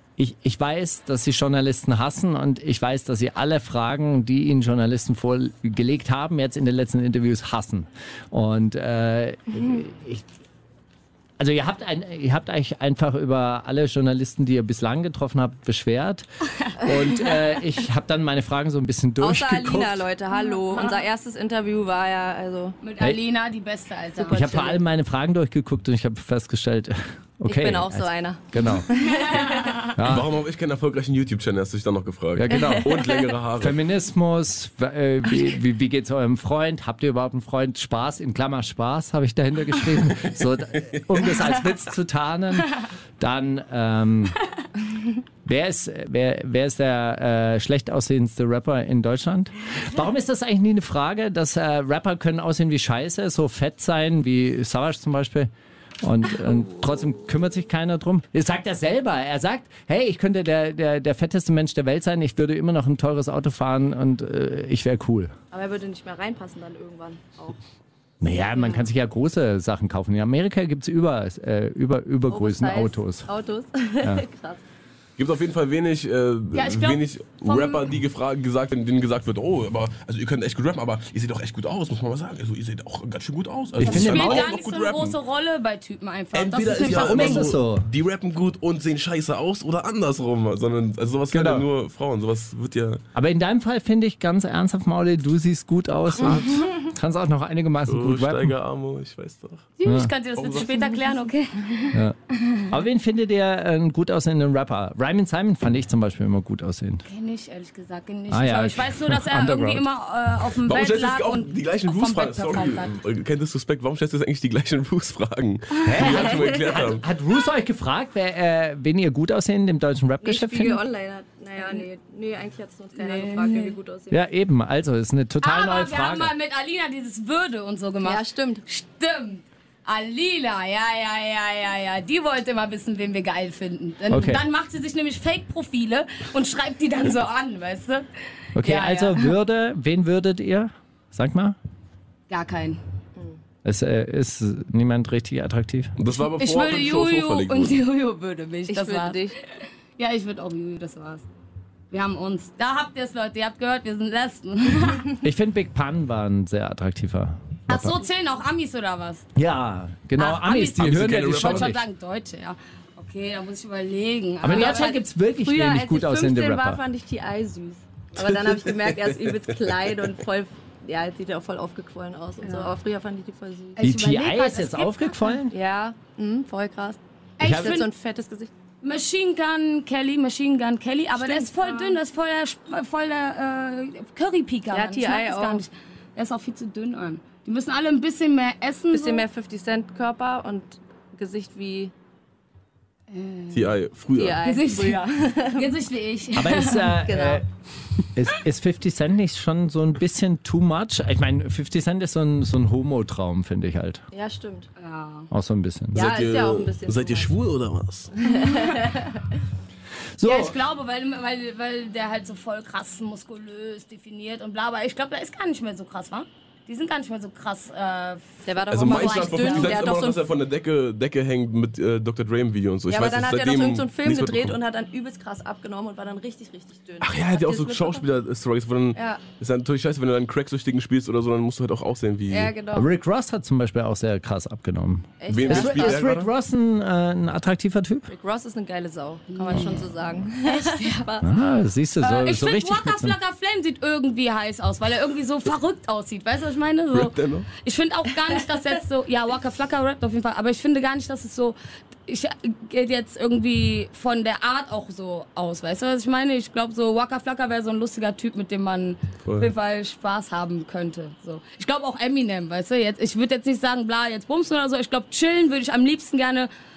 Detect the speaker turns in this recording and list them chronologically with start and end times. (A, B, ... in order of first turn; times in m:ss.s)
0:00.2-0:10.2 A
0:11.4-0:16.3 A
0:16.8-0:20.0 A
0:19.2-0:22.8 B
0:20.4-0:21.0 C
0:22.8-0:24.7 C
0:24.2-0:28.9 A
0:24.3-0:24.7 B
0:27.4-0:29.9 B
0:29.3-0:29.7 C
0:30.0-0:30.3 A
0:30.0-0:33.8 D
0:32.3-0:33.0 A
0:32.5-0:33.2 B
0:33.6-0:44.4 A
0:40.1-0:41.7 D
0:45.4-0:55.5 A
0:56.0-1:05.3 A
1:05.5-1:07.6 B
1:08.2-1:13.3 A
1:08.4-1:08.8 B
1:12.3-1:14.6 B
1:15.2-1:25.2 D
1:16.5-1:17.8 C
1:23.8-1:24.5 A
1:23.8-1:27.5 C
1:26.3-1:33.0 D
1:26.8-1:27.9 A
1:31.3-1:31.6 A
1:33.1-1:38.5 A
1:36.2-1:36.8 D
1:37.8-1:39.7 D
1:39.8-1:41.9 C
1:39.8-1:40.1 A
1:40.4-1:40.8 D
1:41.9-1:47.0 A
1:47.0-1:52.9 C
1:48.3-1:49.9 A
1:50.6-1:57.0 D
1:55.8-2:00.8 A
2:00.2-2:04.2 B
2:03.0-2:03.8 C
2:04.1-2:06.3 A
2:05.4-2:18.0 C
2:08.0-2:08.6 B
2:14.1-2:14.4 A
2:18.6-2:21.6 A
2:18.6-2:19.3 C
2:22.3-2:22.8 C
2:23.6-2:25.9 A
2:26.0-2:27.8 D
2:26.2-2:31.2 C
2:28.7-2:29.4 B
2:31.9-2:35.1 C
2:35.2-2:38.0 A
2:37.7-2:39.2 C
2:39.4-2:41.8 A
2:40.2-2:45.0 C
2:40.8-2:41.7 D
2:44.4-2:46.8 A
2:45.4-2:53.8 B
2:48.2-2:50.1 D
2:52.4-2:52.7 C
2:53.8-2:55.3 C
2:53.8-2:55.5 A
2:55.5-2:58.5 B
2:57.4-2:57.9 C
2:57.4-2:57.8 A
2:58.8-3:09.2 C
3:01.1-3:02.0 B
3:04.7-3:05.6 B
3:08.9-3:11.9 B
3:13.1-3:13.8 C
3:13.5-3:14.4 D
3:14.1-3:15.7 B
3:14.4-3:17.0 C
3:16.3-3:17.4 A
3:17.1-3:17.4 B
3:18.1-3:24.0 A
3:24.1-3:24.7 B
3:24.8-3:25.3 C
3:25.3-3:26.1 A
3:25.9-3:27.3 B
3:25.9-3:28.1 D
3:28.2-3:29.3 B
3:30.2-3:30.6 A
3:30.2-3:39.8 C
3:38.4-3:40.2 B
3:38.7-3:44.6 D
3:42.9-3:48.0 B
3:47.0-3:52.5 D
3:48.9-3:49.2 B
3:52.3-3:52.9 B
3:52.7-3:58.1 A
3:55.2-3:56.0 B
3:55.3-3:56.3 D
3:58.1-4:01.3 B
3:59.3-3:59.9 C
4:00.4-4:01.0 C
4:01.2-4:03.2 A
4:02.0-4:26.5 C
4:06.9-4:07.5 D
4:19.2-4:19.5 D